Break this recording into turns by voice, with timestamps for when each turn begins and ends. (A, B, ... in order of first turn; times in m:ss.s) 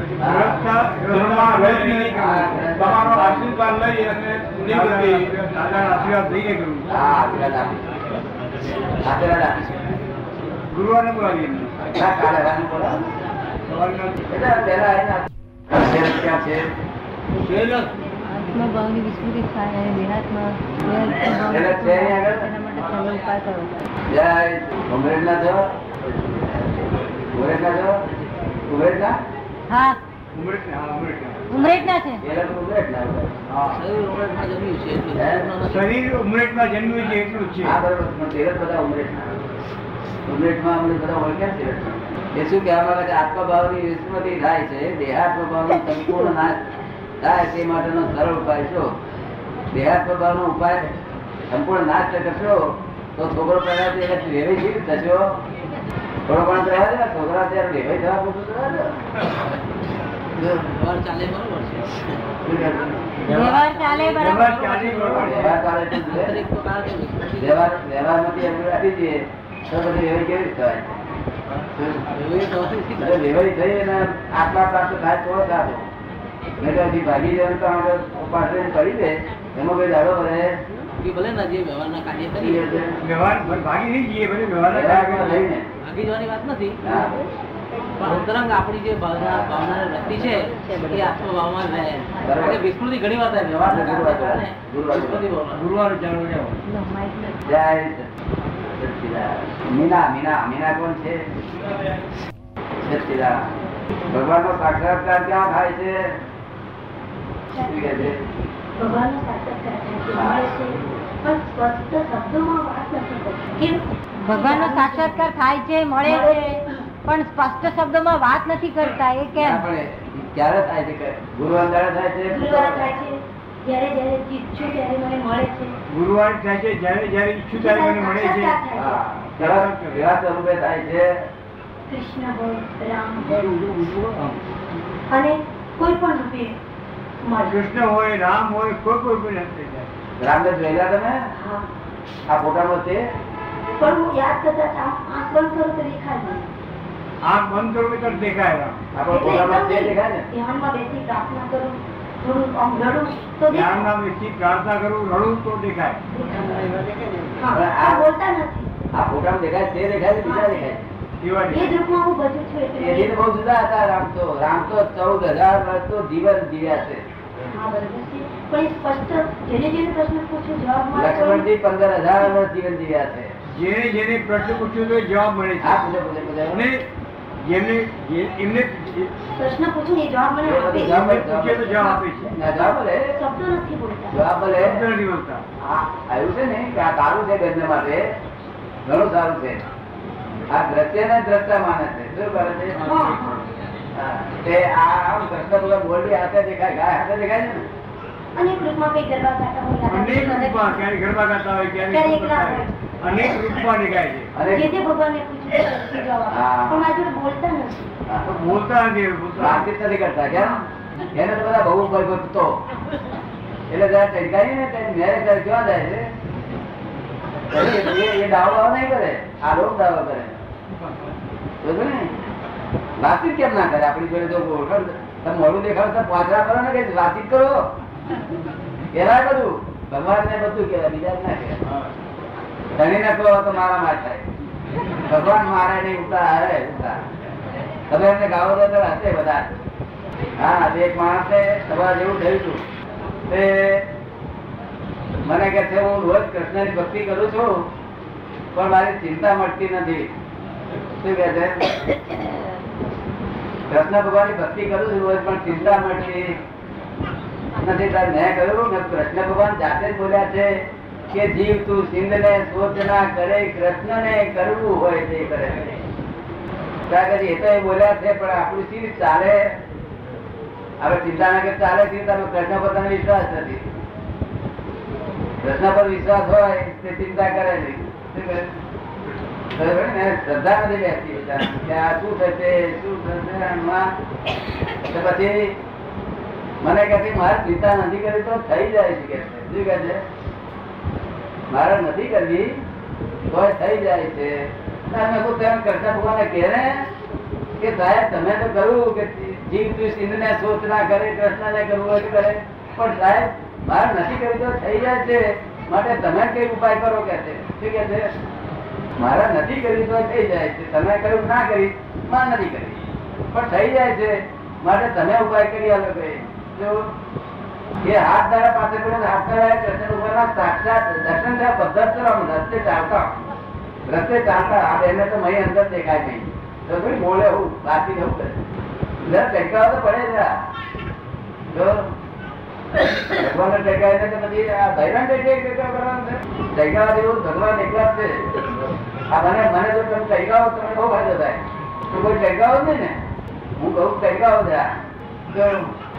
0:00.2-0:00.6 A
0:00.2-0:02.8 B
0:01.1-0:02.1 C
0:02.1-0:03.5 A
0:02.8-0:05.2 C
0:04.6-0:06.9 B
0:06.9-0:07.8 A
0:09.0-0:10.0 A
0:10.7-0:11.8 B
0:11.9-0:13.0 A
0:13.7-0:14.2 B
0:14.3-0:16.7 A
0:17.4-0:17.9 B
0:18.3-0:23.8 D
0:21.5-0:22.5 A
0:24.1-0:28.0 A
0:28.7-0:29.2 A
0:29.7-0:30.0 D
0:30.3-0:31.4 B
0:31.5-0:32.2 D
0:32.2-0:33.3 A
0:33.5-0:33.8 B
0:33.7-0:35.9 E
0:35.1-0:35.5 A
0:35.6-0:37.8 B
0:37.6-0:39.3 A
0:40.3-0:46.6 A
0:47.2-0:48.9 A
0:49.7-0:50.9 A
0:51.5-0:52.6 A
0:53.2-0:55.3 A
0:56.3-0:58.9 A
1:00.4-1:02.1 E
1:02.4-1:03.2 A
1:03.2-1:05.5 E
1:03.3-1:04.5 D
1:04.1-1:05.5 B
1:05.1-1:06.4 A
1:06.0-1:07.6 E
1:07.4-1:10.9 A
1:11.8-1:12.0 A
1:12.1-1:13.2 E
1:13.0-1:15.9 A
1:16.6-1:20.6 A
1:21.0-1:22.6 E
1:22.4-1:23.0 A
1:23.0-1:25.4 B
1:24.7-1:25.7 A
1:25.8-1:26.8 E
1:26.8-1:27.2 A
1:28.0-1:35.7 E
1:29.1-1:29.9 A
1:32.2-1:32.6 A
1:33.6-1:35.2 A
1:35.5-1:36.6 B
1:36.7-1:37.4 D
1:37.4-1:38.1 A
1:38.8-1:41.3 A
1:42.8-1:46.0 A
1:47.5-1:48.1 F
1:47.7-1:48.2 A
1:48.8-1:55.3 F
1:50.2-1:50.5 A
1:54.2-1:59.6 D
1:56.0-1:56.6 F
1:59.4-2:03.0 A
2:02.3-2:05.8 F
2:05.9-2:08.6 B
2:07.5-2:09.0 F
2:08.7-2:11.1 A
2:09.4-2:10.1 B
2:11.9-2:13.5 F
2:13.2-2:14.4 B
2:15.1-2:16.6 F
2:17.2-2:17.6 F
2:17.4-2:19.9 B
2:20.2-2:21.2 A
2:21.4-2:21.7 F
2:22.3-2:23.0 A
2:23.8-2:26.5 F
2:27.2-2:28.8 B
2:28.9-2:30.3 A
2:29.1-2:33.9 F
2:33.5-2:36.0 B
2:36.1-2:36.8 F
2:37.4-2:38.7 F
2:37.5-2:38.1 A
2:38.9-2:40.8 A
2:40.2-2:40.8 F
2:41.2-2:41.7 B
2:41.5-2:43.2 F
2:42.8-2:47.0 A
2:47.5-2:51.5 F
2:51.0-2:53.3 A
2:53.5-2:55.8 B
2:55.6-2:56.7 A
2:56.5-2:56.9 B
2:57.4-2:59.1 B
2:59.4-3:01.0 F
3:00.4-3:03.1 A
3:00.9-3:02.3 B
3:03.1-3:04.2 F
3:04.1-3:04.9 A
3:04.6-3:05.4 B
3:05.6-3:08.1 A
3:08.8-3:09.6 A
3:10.5-3:12.8 A
3:12.8-3:13.4 F
3:14.0-3:17.6 A
3:18.4-3:20.8 F
3:19.9-3:24.3 B
3:21.9-3:22.7 F
3:24.4-3:24.7 A
3:24.5-3:27.9 F
3:26.3-3:26.9 A
3:28.1-3:28.4 A
3:28.3-3:29.7 B
3:29.4-3:30.6 A
3:31.1-3:32.6 A
3:33.7-3:36.0 A
3:37.5-3:40.3 A
3:41.6-3:42.1 A
3:43.0-3:47.6 A
3:48.9-3:51.6 A
3:52.8-3:54.2 A
3:55.1-3:57.0 A
3:57.9-3:59.6 A
4:00.4-4:02.6 A
4:03.3-4:03.9 A
4:05.2-4:07.7 A
4:08.5-4:10.1 A
4:11.0-4:11.7 A
4:13.7-4:16.4 A
4:17.6-4:20.5 A
4:21.1-4:25.6 A
4:26.9-4:29.5 A
4:30.8-4:33.6 A
4:35.4-4:38.5 A
4:39.6-4:43.9 A
4:44.9-4:45.6 A
4:46.6-4:50.0 A
4:51.5-4:52.6 A
4:53.3-4:56.9 A
4:57.6-5:08.1 A
5:09.0-5:16.9 A
5:17.8-5:23.2 A
5:23.9-5:28.4 A
5:29.0-5:30.3 A
5:31.5-5:31.9 A
5:33.1-5:38.4 A
5:39.1-5:43.0 A
5:43.6-5:44.7 A
5:45.3-5:45.7 A